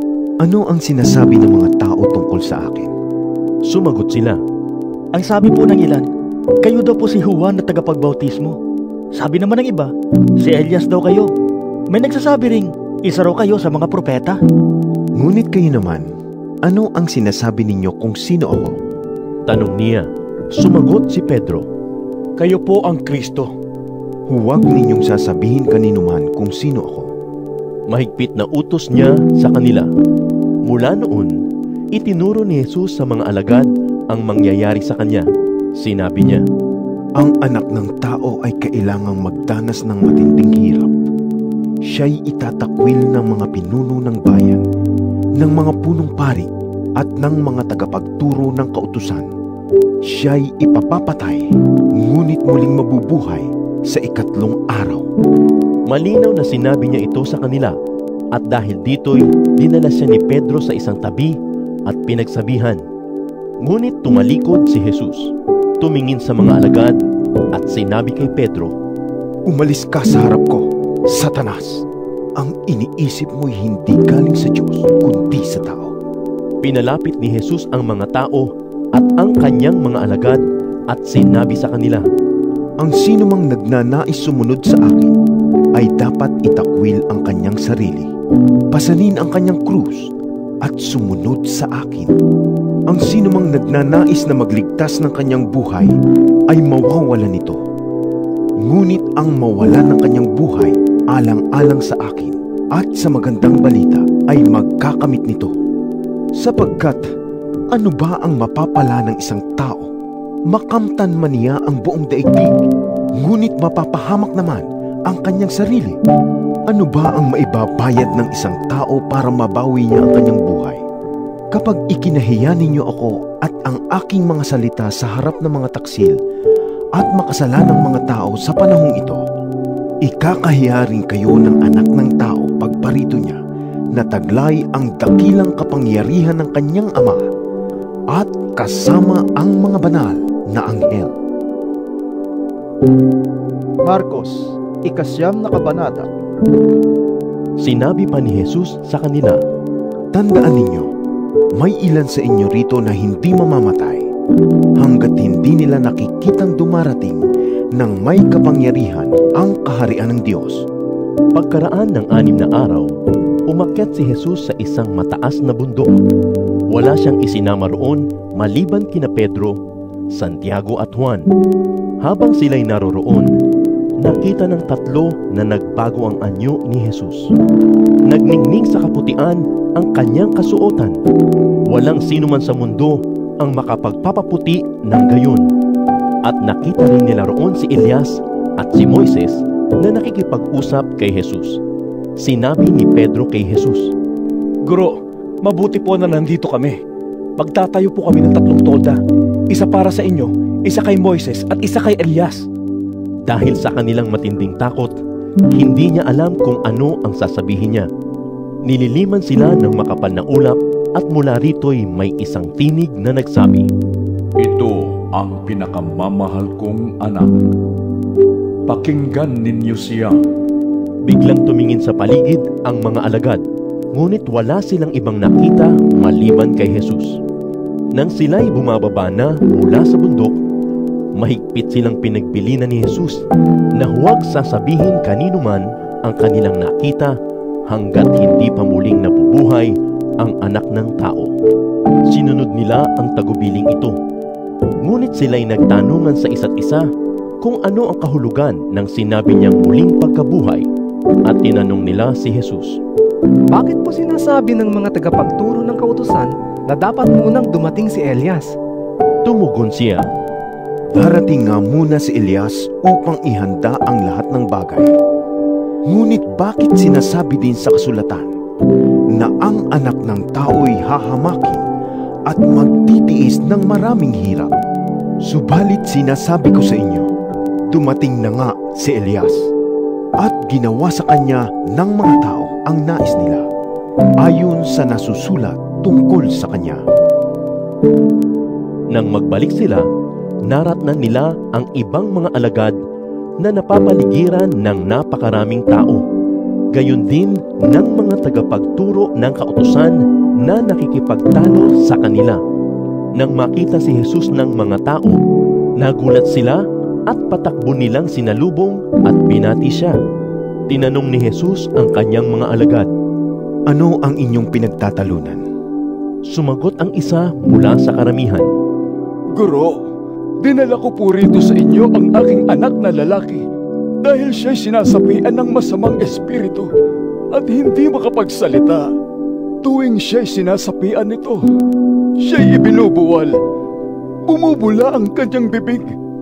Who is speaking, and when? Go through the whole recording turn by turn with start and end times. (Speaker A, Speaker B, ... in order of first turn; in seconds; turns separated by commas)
Speaker A: 0.4-2.9, Speaker B: 3.6-4.4, Speaker C: 5.1-6.0, Speaker C: 6.6-8.6, Speaker C: 9.1-11.3, Speaker C: 11.9-14.4, Speaker A: 15.2-16.1, Speaker A: 16.6-18.8, Speaker B: 19.5-21.7, Speaker D: 22.4-23.5, Speaker A: 24.3-27.1, Speaker B: 27.9-29.9, Speaker B: 30.6-31.4, Speaker B: 31.9-35.2, Speaker B: 35.8-36.4, Speaker A: 37.1-40.9, Speaker A: 41.9-44.6, Speaker A: 45.4-49.3, Speaker A: 50.0-55.1, Speaker B: 55.9-57.7, Speaker B: 58.3-61.4, Speaker B: 61.9-62.8, Speaker B: 63.6-67.0, Speaker B: 67.5-68.7, Speaker A: 69.5-71.8, Speaker A: 72.4-75.9, Speaker B: 76.6-82.0, Speaker A: 82.8-85.2, Speaker A: 85.7-88.1, Speaker A: 88.7-90.1, Speaker A: 90.6-92.1, Speaker A: 92.9-95.9, Speaker A: 96.5-97.6, Speaker A: 98.6-105.6, Speaker A: 106.3-107.0, Speaker A: 107.7-109.9, Speaker A: 110.5-112.5, Speaker A: 113.2-116.0, Speaker A: 116.7-120.8, Speaker A: 121.5-126.2, Speaker A: 127.0-129.2, Speaker A: 130.0-133.4, Speaker A: 133.9-137.2, Speaker A: 138.1-141.1, Speaker E: 143.8-146.1, Speaker B: 147.6-149.4, Speaker A: 150.1-150.9, Speaker A: 151.6-154.1, Speaker A: 154.8-157.2, Speaker A: 157.7-160.6, Speaker B: 161.3-162.9, Speaker B: 163.5-166.0, Speaker B: 166.7-169.6, Speaker B: 170.1-171.3, Speaker B: 172.0-173.3, Speaker B: 174.0-177.3, Speaker B: 178.1-181.0, Speaker B: 181.7-185.4, Speaker B: 186.2-191.6, Speaker B: 192.2-193.9, Speaker D: 194.7-196.8, Speaker D: 197.4-198.9, Speaker D: 199.5-202.5, Speaker B: 203.3-204.9, Speaker B: 205.5-207.9, Speaker B: 208.7-213.7, Speaker F: 214.4-217.3, Speaker F: 218.7-220.2, Speaker B: 221.0-223.4, Speaker B: 223.9-227.2, Speaker B: 227.9-230.3, Speaker B: 231.2-233.2, Speaker B: 233.8-237.2, Speaker B: 237.7-241.3, Speaker B: 242.1-243.9, Speaker B: 244.8-246.9, Speaker B: 247.4-250.7, Speaker B: 251.2-252.8, Speaker G: 253.5-258.5, Speaker B: 259.2-260.1, Speaker A: 260.9-264.9, Speaker A: 265.9-268.3, Speaker A: 269.1-271.6, Speaker A: 272.3-274.5, Speaker A: 275.2-277.1, Speaker A: 277.7-279.5, Speaker A: 280.2-283.4, Speaker A: 284.2-286.8, Speaker B: 288.9-289.9, Speaker B: 290.5-292.8, Speaker B: 293.4-296.0, Speaker B: 296.7-302.4, Speaker B: 303.2-305.2, Speaker B: 305.8-309.9, Speaker B: 310.7-312.9, Speaker A: 313.7-315.4, Speaker B: 316.3-318.5